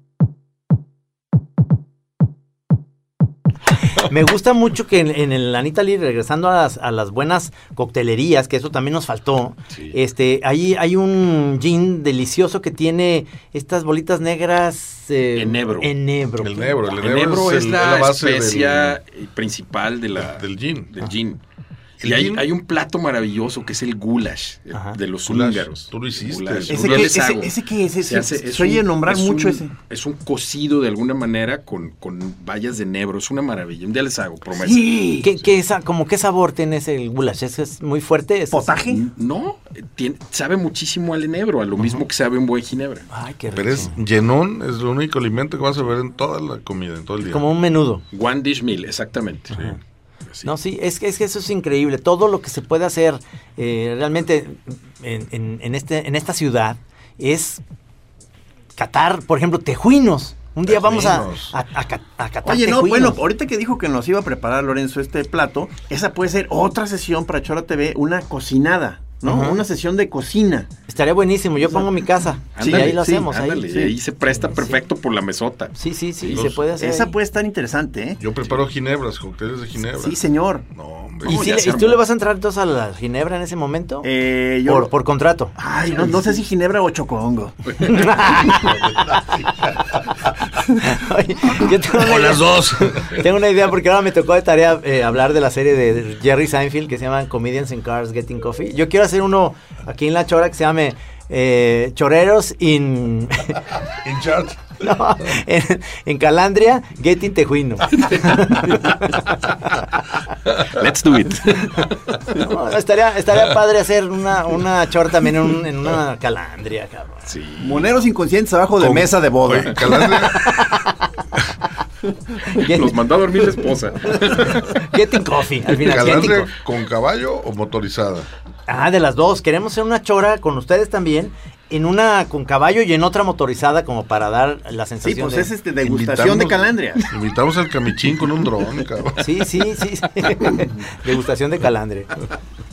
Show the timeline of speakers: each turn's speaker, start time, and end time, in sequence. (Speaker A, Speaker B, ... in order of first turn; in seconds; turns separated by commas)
Speaker A: 4.0-16.8, Speaker B: 9.7-9.9, Speaker B: 15.3-15.9, Speaker C: 16.4-19.0, Speaker B: 16.9-21.4, Speaker C: 20.2-20.9, Speaker C: 22.0-22.5, Speaker B: 22.0-35.3, Speaker C: 25.2-27.1, Speaker D: 26.7-29.7, Speaker D: 34.5-35.3, Speaker A: 35.2-38.8, Speaker D: 38.5-39.0, Speaker B: 38.9-43.1, Speaker A: 43.1-44.0, Speaker C: 43.5-47.4, Speaker A: 47.2-48.0, Speaker B: 48.1-49.6, Speaker A: 49.5-49.8, Speaker B: 50.2-50.5, Speaker A: 50.4-57.6, Speaker A: 58.8-63.2, Speaker C: 60.6-61.5, Speaker D: 62.4-70.7, Speaker A: 69.2-69.6, Speaker A: 70.9-73.7, Speaker B: 72.5-76.4, Speaker D: 72.6-73.9, Speaker A: 74.3-74.8, Speaker A: 75.7-77.2, Speaker C: 76.3-76.6, Speaker D: 76.8-78.2, Speaker C: 78.2-80.2, Speaker D: 79.9-80.7, Speaker C: 80.7-81.4, Speaker B: 81.2-82.0, Speaker A: 81.2-84.1, Speaker D: 84.0-84.9, Speaker A: 84.6-85.5, Speaker D: 85.6-87.7, Speaker A: 87.8-88.8, Speaker C: 88.7-89.9, Speaker A: 89.8-90.1, Speaker A: 90.8-103.7, Speaker C: 91.9-93.2, Speaker C: 103.9-104.8, Speaker A: 104.8-109.9, Speaker B: 108.0-109.6, Speaker B: 110.5-112.4, Speaker A: 111.6-117.3, Speaker B: 117.3-118.0, Speaker D: 117.6-120.0, Speaker C: 118.8-120.5, Speaker A: 119.9-121.1, Speaker A: 122.4-123.0, Speaker B: 122.6-124.7, Speaker A: 124.1-126.5, Speaker C: 125.7-128.3, Speaker A: 128.7-135.5, Speaker D: 135.0-137.1, Speaker C: 135.8-139.3, Speaker A: 139.2-142.2